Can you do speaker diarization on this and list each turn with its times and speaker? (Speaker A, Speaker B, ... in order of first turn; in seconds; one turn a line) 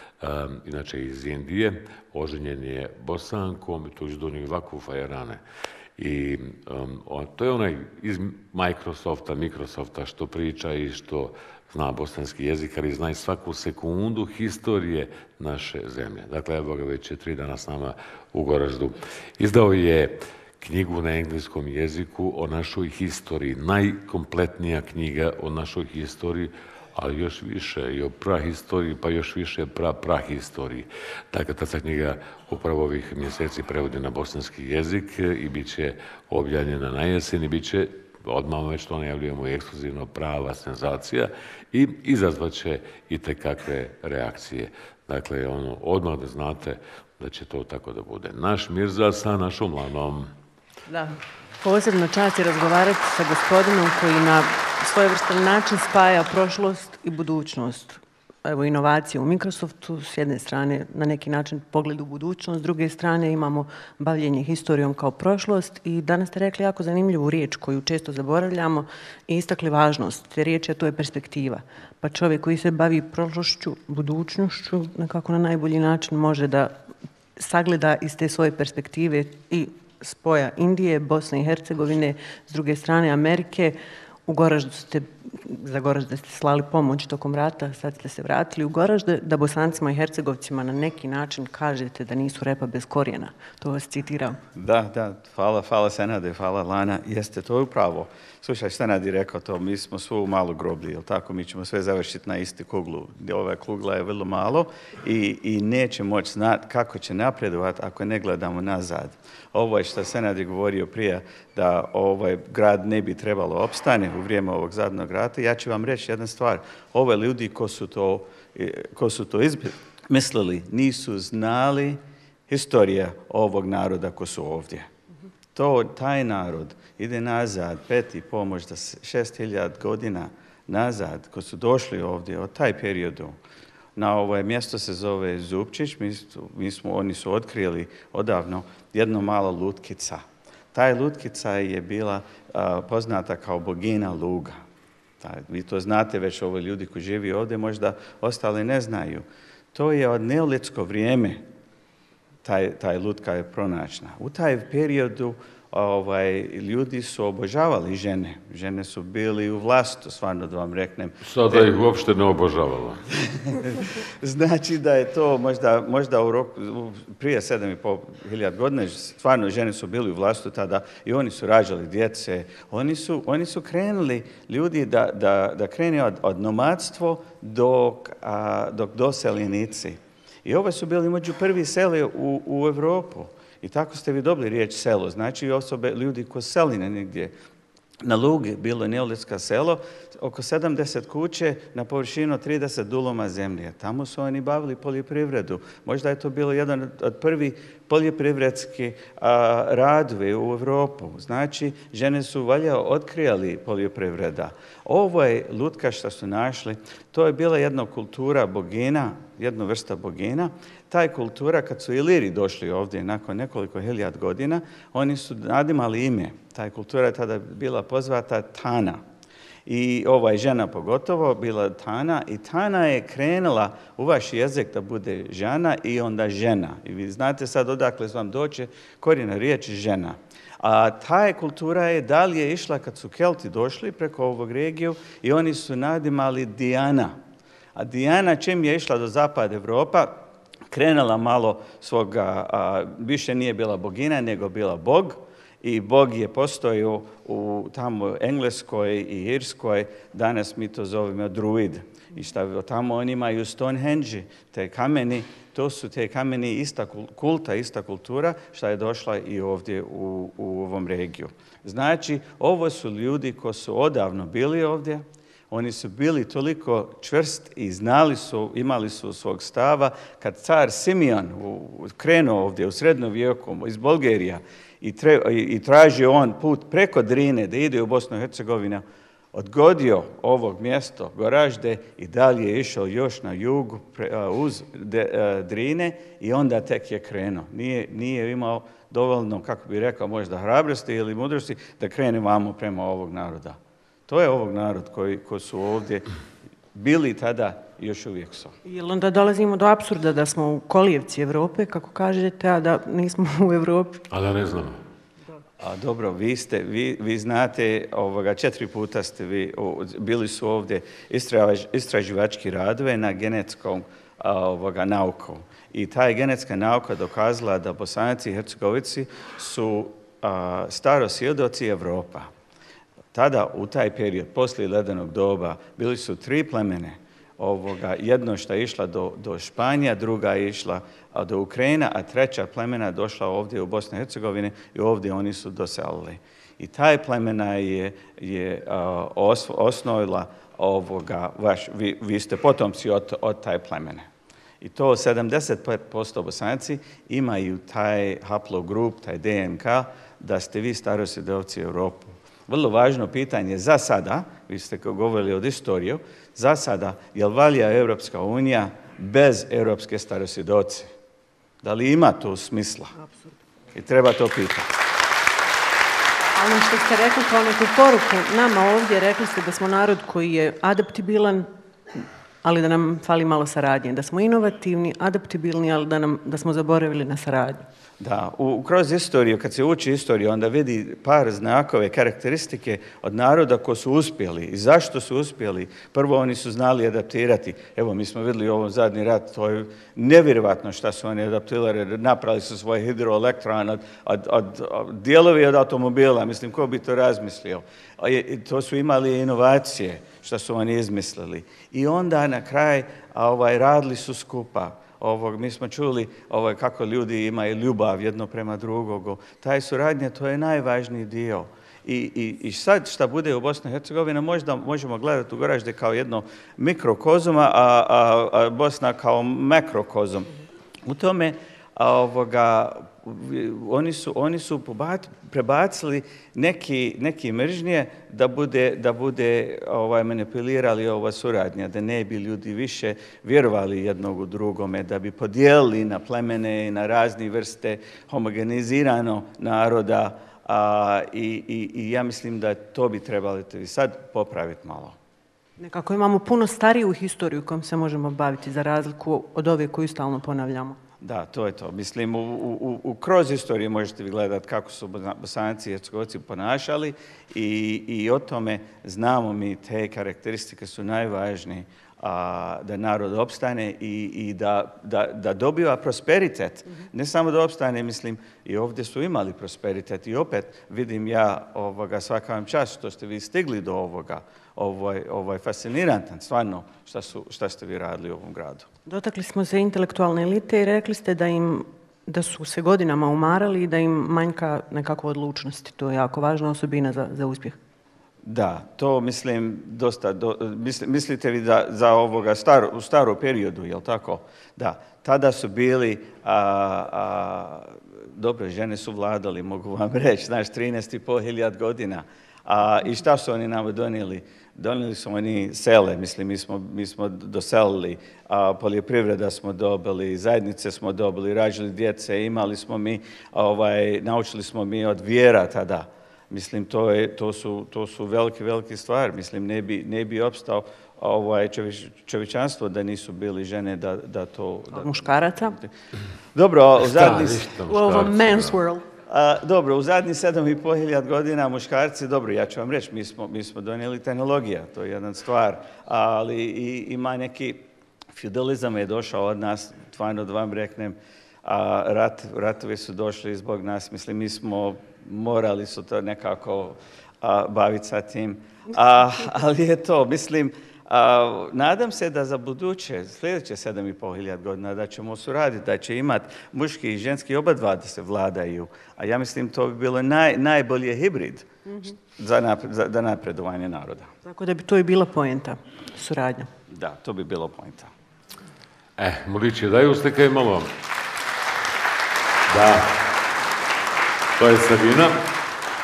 Speaker A: 0.2-5.4
Speaker A: 6.0-50.3
Speaker B: 50.9-76.8
Speaker B: 77.4-83.8
Speaker B: 84.3-94.4
Speaker C: 94.5-124.8
Speaker C: 125.5-133.4
Speaker C: 133.9-140.2
Speaker C: 140.7-144.6
Speaker C: 145.2-151.4
Speaker C: 152.4-161.6
Speaker A: 161.2-163.0
Speaker C: 163.3-187.3
Speaker C: 188.0-219.0
Speaker C: 219.7-237.1
Speaker C: 237.7-293.6
Speaker C: 294.1-296.0
Speaker C: 296.7-298.5
Speaker B: 298.6-304.1
Speaker A: 304.1-304.8
Speaker C: 305.6-322.3
Speaker C: 323.1-344.1
Speaker C: 344.6-360.9
Speaker C: 361.6-362.9
Speaker C: 363.7-364.7
Speaker B: 366.4-371.4
Speaker B: 372.4-377.6
Speaker C: 378.0-420.3
Speaker C: 420.9-444.9
Speaker B: 445.6-450.8
Speaker C: 451.0-478.7
Speaker B: 478.9-487.6
Speaker C: 488.2-525.7
Speaker B: 524.7-525.6
Speaker C: 526.3-527.5
Speaker A: 526.8-528.6
Speaker B: 527.6-528.9
Speaker C: 529.1-564.1
Speaker B: 564.2-566.5
Speaker C: 566.7-567.9
Speaker A: 569.0-570.7
Speaker A: 572.5-572.9
Speaker A: 574.4-575.2